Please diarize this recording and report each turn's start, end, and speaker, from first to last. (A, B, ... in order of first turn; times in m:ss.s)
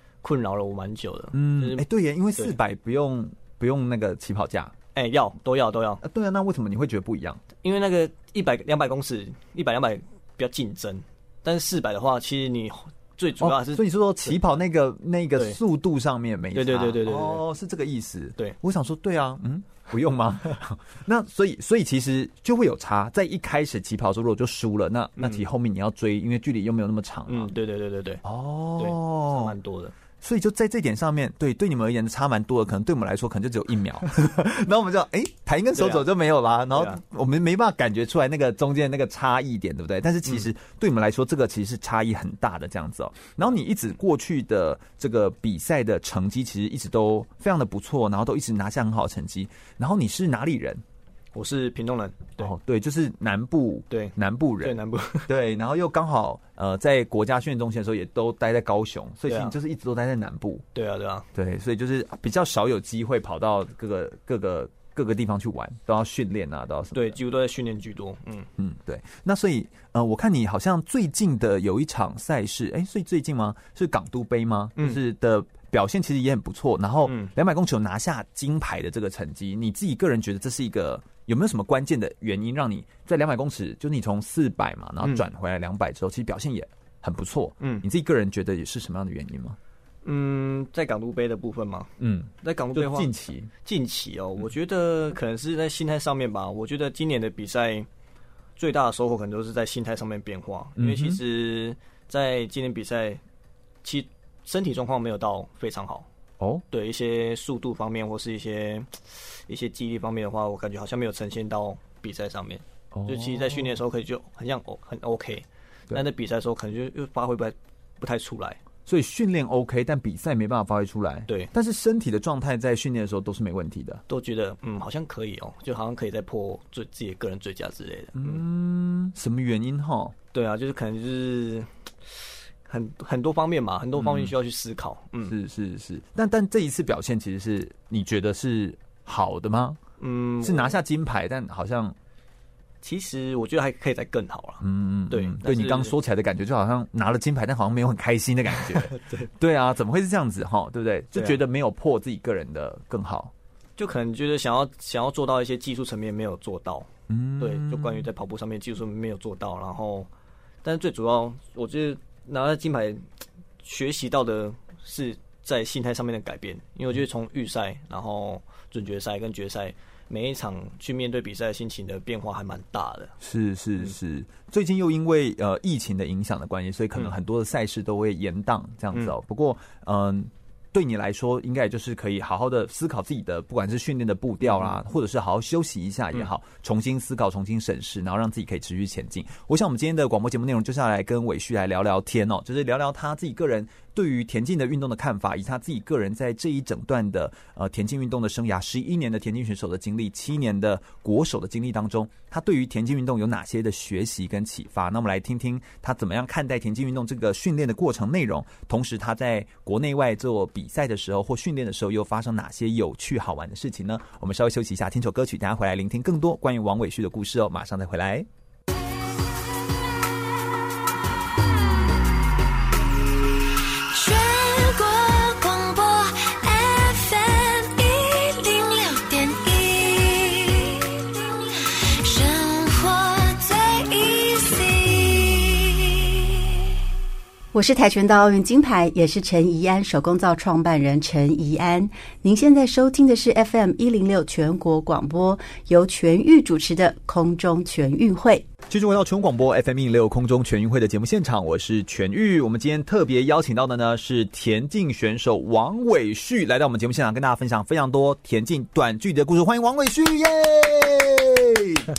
0:00.2-0:01.8 A
0:01.3-0:04.7 B
0:04.9-0:06.0 A
0:06.0-0:07.4 B
0:07.6-0:14.4 A
0:13.4-0:27.5 B
0:16.5-0:17.4 A
0:25.2-0:25.4 A
0:27.3-0:28.2 A
0:28.2-0:29.5 B
0:28.8-0:29.9 A
0:30.2-0:50.8 B
0:35.7-0:36.0 A
0:36.7-0:37.0 A
0:51.3-0:52.5 A
0:52.4-1:00.6 B
0:53.9-0:55.3 A
0:59.3-0:59.6 A
1:00.7-1:01.3 A
1:01.3-1:07.2 B
1:06.9-1:08.5 A
1:08.6-1:29.6 B
1:14.8-1:15.0 A
1:17.0-1:17.3 A
1:27.6-1:27.8 A
1:30.0-1:31.9 A
1:32.0-1:33.5 B
1:32.4-1:37.9 A
1:38.6-1:43.2 A
1:40.8-1:41.2 B
1:43.8-1:46.1 A
1:46.4-1:46.6 B
1:46.7-1:58.6 A
1:52.9-1:53.8 B
1:58.8-2:04.0 B
2:04.1-2:08.4 A
2:08.2-2:10.1 B
2:10.3-2:11.7 A
2:12.7-2:15.3 A
2:14.0-2:14.3 B
2:15.2-2:19.8 B
2:20.0-2:20.8 A
2:20.4-2:22.0 B
2:22.8-2:25.9 A
2:24.6-2:33.3 B
2:28.7-2:29.3 A
2:31.1-2:31.4 A
2:33.8-2:36.9 A
2:37.1-2:38.1 B
2:37.4-2:40.1 A
2:40.6-2:43.0 A
2:43.6-2:53.1 A
2:53.2-3:38.3 B
3:04.4-3:04.8 A
3:43.9-3:56.5 C
3:57.5-4:08.4 D
4:08.7-4:21.8 B